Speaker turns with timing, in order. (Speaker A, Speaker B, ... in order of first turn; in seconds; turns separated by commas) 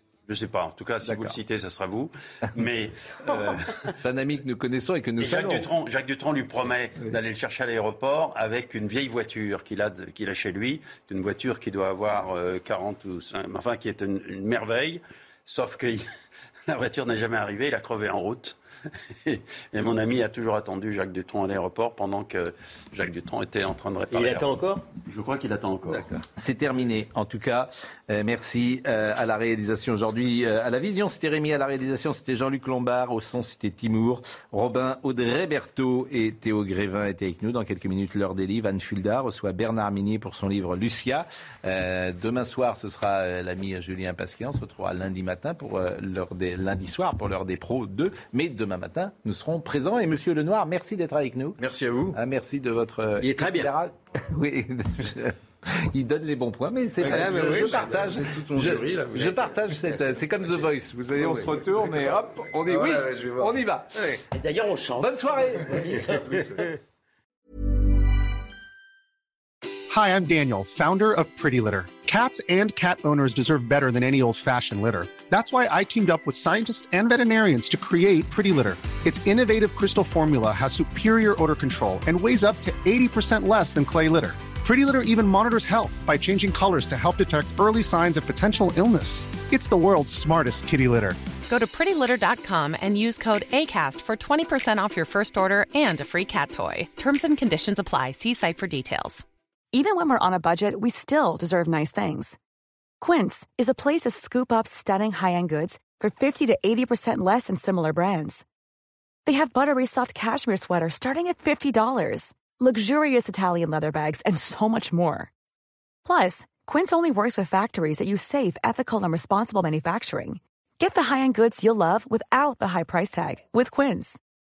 Speaker A: 0.3-3.9, Speaker B: 1.0-1.4, Speaker B: 3.2-5.7, Speaker A: 5.2-16.0, Speaker A: 16.7-18.6, Speaker A: 19.1-24.5, Speaker C: 24.1-24.9, Speaker A: 25.1-26.1, Speaker C: 25.9-26.2, Speaker B: 26.4-51.6, Speaker D: 51.6-52.2, Speaker B: 52.1-64.1, Speaker C: 53.2-53.7, Speaker C: 57.0-58.1, Speaker D: 57.0-59.5, Speaker C: 59.1-61.5, Speaker D: 62.0-63.6, Speaker E: 64.3-66.7, Speaker B: 65.0-66.0, Speaker F: 69.9-91.2, Speaker G: 91.5-99.2, Speaker H: 99.7-102.4, Speaker H: 103.0-108.5, Speaker H: 109.3-115.3, Speaker H: 116.0-124.2